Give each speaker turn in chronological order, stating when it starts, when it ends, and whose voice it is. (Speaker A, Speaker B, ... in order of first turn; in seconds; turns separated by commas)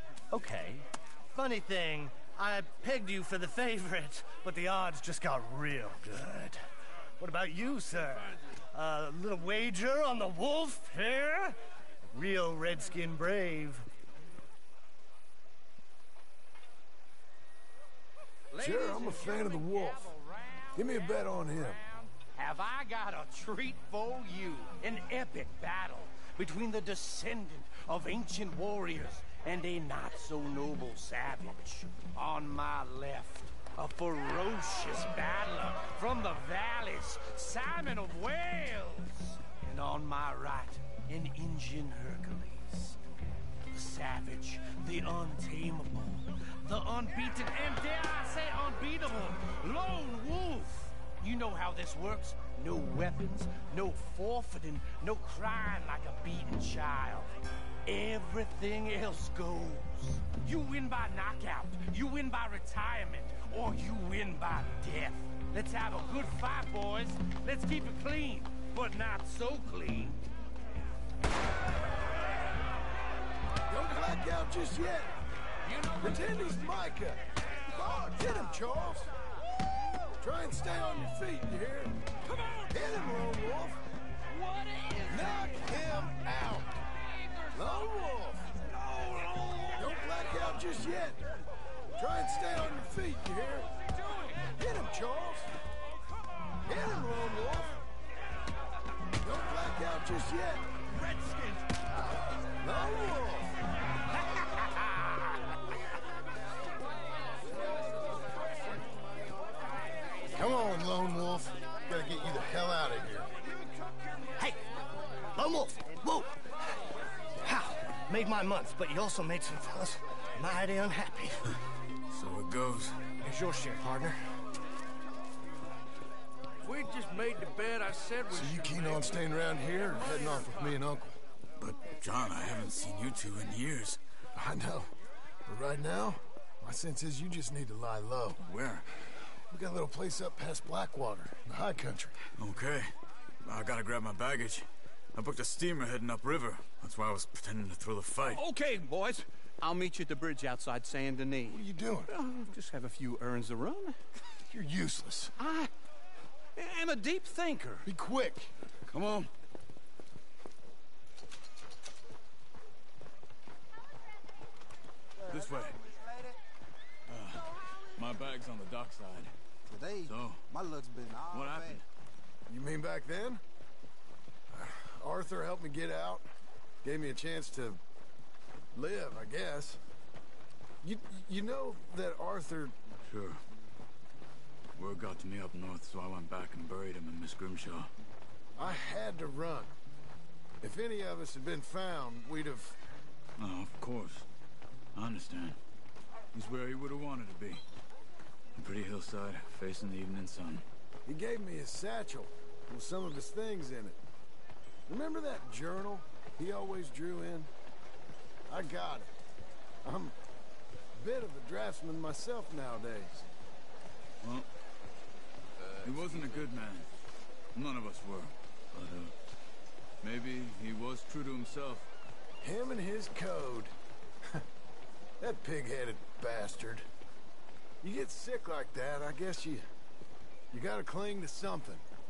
Speaker A: 0.3-6.7, Speaker A: 7.2-11.6, Speaker A: 12.1-13.9, Speaker B: 18.5-20.7, Speaker C: 18.6-20.1, Speaker C: 20.7-21.8, Speaker B: 21.9-43.0, Speaker B: 43.7-57.3, Speaker B: 57.9-70.2, Speaker C: 73.7-75.2, Speaker B: 75.7-76.4, Speaker C: 76.0-77.2, Speaker C: 77.8-79.1, Speaker C: 80.2-82.0, Speaker C: 82.7-83.8, Speaker B: 84.3-85.1, Speaker C: 85.1-86.8, Speaker C: 87.5-88.6, Speaker D: 88.7-90.0, Speaker C: 89.8-91.2, Speaker C: 92.0-93.7, Speaker C: 94.5-95.5, Speaker C: 96.7-97.8, Speaker C: 99.2-100.7, Speaker B: 100.9-101.7, Speaker C: 102.6-103.6, Speaker B: 104.3-105.2, Speaker C: 110.3-113.3, Speaker A: 114.4-114.6, Speaker A: 115.3-116.4, Speaker A: 117.4-121.5, Speaker E: 122.1-123.1, Speaker A: 123.2-124.4, Speaker B: 126.7-128.9, Speaker C: 128.3-131.2, Speaker E: 131.6-134.0, Speaker C: 134.3-134.9, Speaker C: 135.5-138.4, Speaker E: 138.4-138.9, Speaker C: 139.5-142.1, Speaker E: 142.4-148.4, Speaker D: 148.2-154.0, Speaker C: 151.5-152.1, Speaker C: 154.4-155.3, Speaker D: 155.4-155.7, Speaker D: 156.6-157.9, Speaker C: 157.8-158.5, Speaker E: 158.9-159.3, Speaker F: 165.2-166.4, Speaker E: 165.3-165.8, Speaker E: 167.1-169.3, Speaker F: 169.7-171.8, Speaker E: 170.0-170.5, Speaker E: 171.3-171.8, Speaker C: 172.5-173.4, Speaker C: 174.5-176.3, Speaker C: 176.8-177.8, Speaker C: 178.7-179.8, Speaker C: 180.8-182.8, Speaker E: 183.1-183.4, Speaker E: 184.8-187.9, Speaker C: 188.6-189.7, Speaker C: 190.6-192.8, Speaker E: 193.4-194.3, Speaker E: 194.9-195.6, Speaker E: 196.3-197.6, Speaker E: 198.6-200.7, Speaker C: 201.1-204.0, Speaker C: 204.9-207.5, Speaker C: 208.5-209.1, Speaker C: 209.8-210.2, Speaker C: 210.9-213.3, Speaker E: 214.2-214.5, Speaker E: 215.8-216.9, Speaker E: 217.6-219.2, Speaker E: 220.0-221.9, Speaker C: 222.4-223.7, Speaker C: 225.2-226.9, Speaker C: 227.8-229.7, Speaker C: 230.5-231.8